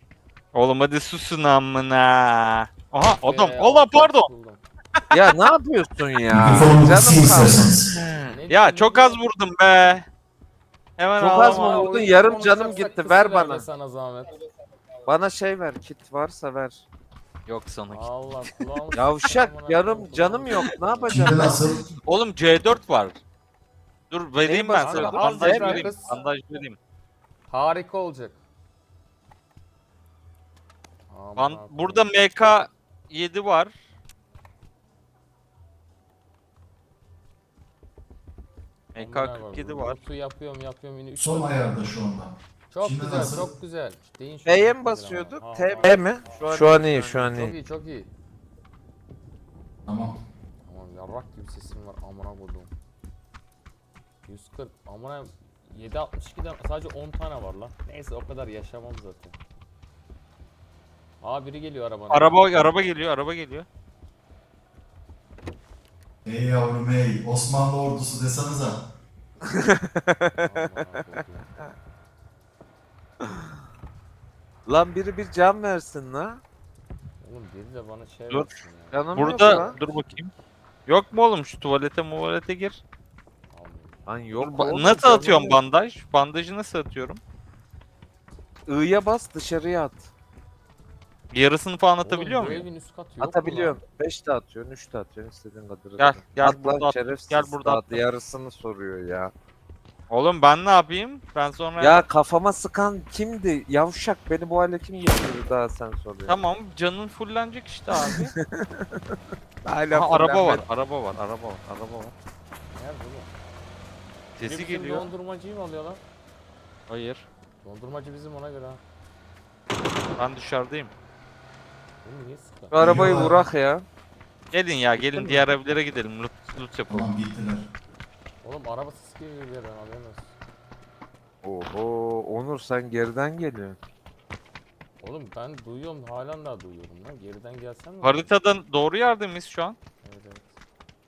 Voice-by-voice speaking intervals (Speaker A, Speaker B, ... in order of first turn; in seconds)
Speaker A: 0.5-4.3, 7.9-10.1, 11.0-12.0, 17.4-18.1, 22.0-23.2, 24.1-26.8, 31.4-33.7, 38.9-40.0, 62.1-63.6, 79.1-80.3, 80.9-82.8, 84.4-87.2, 91.3-92.7, 96.0-98.0, 100.1-102.0, 106.3-108.3, 109.9-112.1, 114.4-115.1, 116.9-117.2, 120.2-120.9, 124.5-127.1, 138.0-139.8
Speaker B: 3.0-4.6, 8.3-9.2, 11.3-14.4, 17.9-21.6, 24.8-26.2, 27.5-28.4, 31.1-32.1, 39.0-41.7, 42.7-48.1, 50.6-52.7, 54.2-59.4, 61.2-62.7, 70.4-71.7, 77.2-79.9, 83.5-84.2, 92.0-93.8, 112.7-113.3, 114.4-116.0, 117.6-118.8, 122.0-122.7, 125.1-125.5, 128.4-130.3, 135.0-138.3, 140.0-140.5
Speaker C: 5.1-7.8, 11.2-13.6, 15.1-16.8, 18.9-21.7, 24.4-25.9, 44.4-47.5, 69.6-70.3, 74.7-76.4, 78.9-79.8, 84.1-85.6, 88.7-90.1, 93.2-99.3, 101.8-106.4, 108.0-109.0, 109.6-110.6, 122.7-123.8, 131.4-133.8
Speaker D: 6.3-7.9, 21.1-21.9, 41.1-43.5, 49.9-50.2, 66.2-68.8, 122.7-123.4, 126.9-127.7